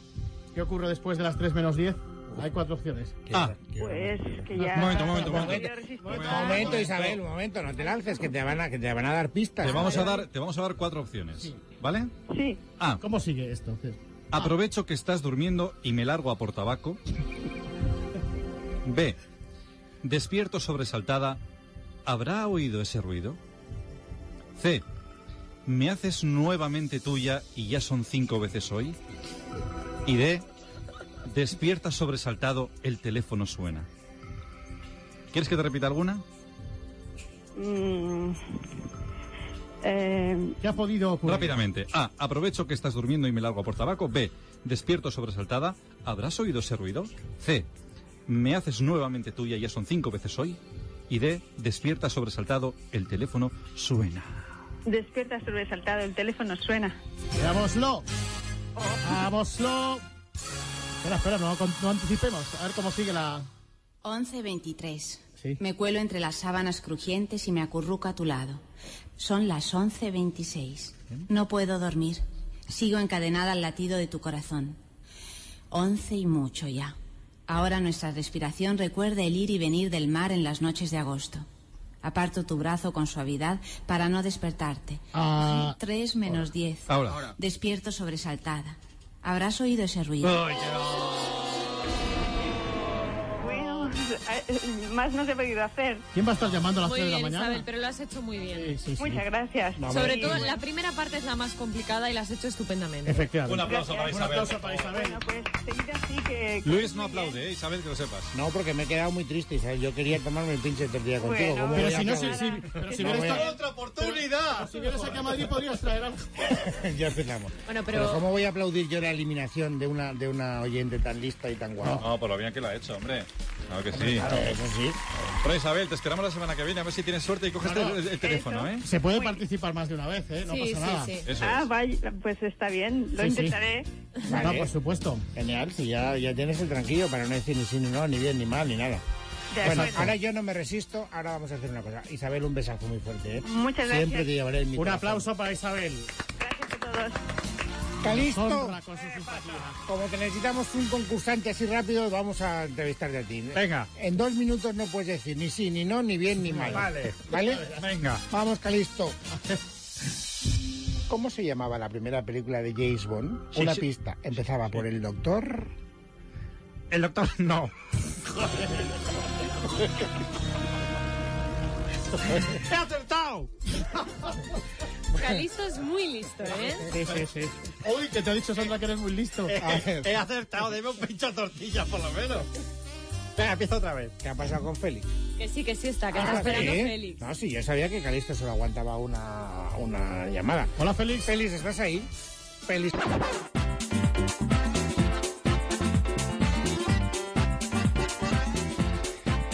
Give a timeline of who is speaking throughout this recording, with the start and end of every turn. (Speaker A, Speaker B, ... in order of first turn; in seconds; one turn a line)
Speaker A: 0.5-3.2
Speaker B: 3.3-4.5
Speaker C: 3.3-3.6
Speaker D: 3.7-6.8
Speaker A: 4.5-7.0
Speaker C: 4.7-7.2
Speaker B: 5.3-5.6
Speaker B: 6.2-10.2
Speaker C: 9.6-12.1
Speaker D: 9.7-10.2
Speaker D: 12.3-12.6
Speaker A: 13.0-14.6
Speaker C: 14.3-17.0
Speaker C: 18.9-19.2
Speaker C: 20.0-21.4
Speaker C: 22.1-23.4
Speaker C: 24.6-24.8
Speaker C: 25.7-29.0
Speaker C: 30.1-30.4
Speaker C: 31.2-33.9
Speaker C: 35.3-36.2
Speaker D: 37.6-38.4
Speaker D: 39.8-40.6
Speaker A: 40.6-41.6
Speaker C: 41.2-47.7
Speaker C: 48.3-54.5
Speaker D: 54.9-57.0
Speaker A: 57.4-58.0
Speaker A: 59.0-60.0
Speaker A: 61.0-63.5
Speaker E: 64.0-68.6
Speaker E: 69.2-74.8
Speaker E: 75.7-77.0
Speaker E: 77.5-81.5
Speaker E: 82.0-90.4
Speaker A: 85.1-85.8
Speaker C: 86.9-87.3
Speaker C: 90.2-91.1
Speaker D: 93.4-96.0
Speaker A: 96.1-97.7
Speaker F: 96.8-98.8
Speaker A: 98.5-99.2
Speaker D: 99.0-100.6
Speaker B: 99.8-100.5
Speaker F: 99.8-103.3
Speaker A: 103.0-105.2
Speaker C: 103.4-105.0
Speaker D: 103.6-107.4
Speaker C: 106.6-108.3
Speaker B: 108.3-113.5
Speaker D: 111.2-113.7
Speaker A: 111.7-116.6
Speaker C: 113.4-115.6
Speaker B: 116.5-122.0
Speaker F: 117.7-118.2
Speaker A: 121.8-122.1
Speaker C: 122.0-124.4
Speaker A: 124.0-124.6
Speaker B: 124.0-125.0
Speaker C: 125.4-128.9
Speaker A: 127.6-128.2
Speaker D: 128.2-129.5
Speaker A: 128.8-131.2
Speaker F: 130.5-131.3
Speaker C: 131.2-131.7
Speaker D: 131.3-133.9
Speaker A: 133.2-133.6
Speaker B: 134.3-134.7
Speaker A: 134.3-135.2
Speaker B: 135.3-139.0
Speaker D: 139.5-140.0
Speaker B: 139.6-145.3
Speaker A: 139.6-140.1
Speaker D: 143.4-144.3
Speaker A: 144.8-146.1
Speaker D: 146.4-147.2
Speaker B: 148.0-148.8
Speaker A: 148.1-149.8
Speaker B: 149.8-157.7
Speaker G: 153.5-153.9
Speaker A: 156.5-157.8
Speaker G: 156.7-158.2
Speaker B: 158.3-159.2
Speaker A: 159.3-159.6
Speaker B: 161.1-165.7
Speaker G: 163.5-163.8
Speaker G: 166.9-167.7
Speaker A: 172.4-173.2
Speaker B: 175.1-175.4
Speaker F: 175.1-176.9
Speaker A: 176.9-179.6
Speaker C: 179.5-182.5
Speaker B: 179.6-180.2
Speaker C: 183.5-184.1
Speaker B: 184.2-185.1
Speaker F: 185.4-187.2
Speaker B: 186.1-192.1
Speaker A: 186.1-186.7
Speaker A: 190.8-191.3
Speaker B: 192.7-193.0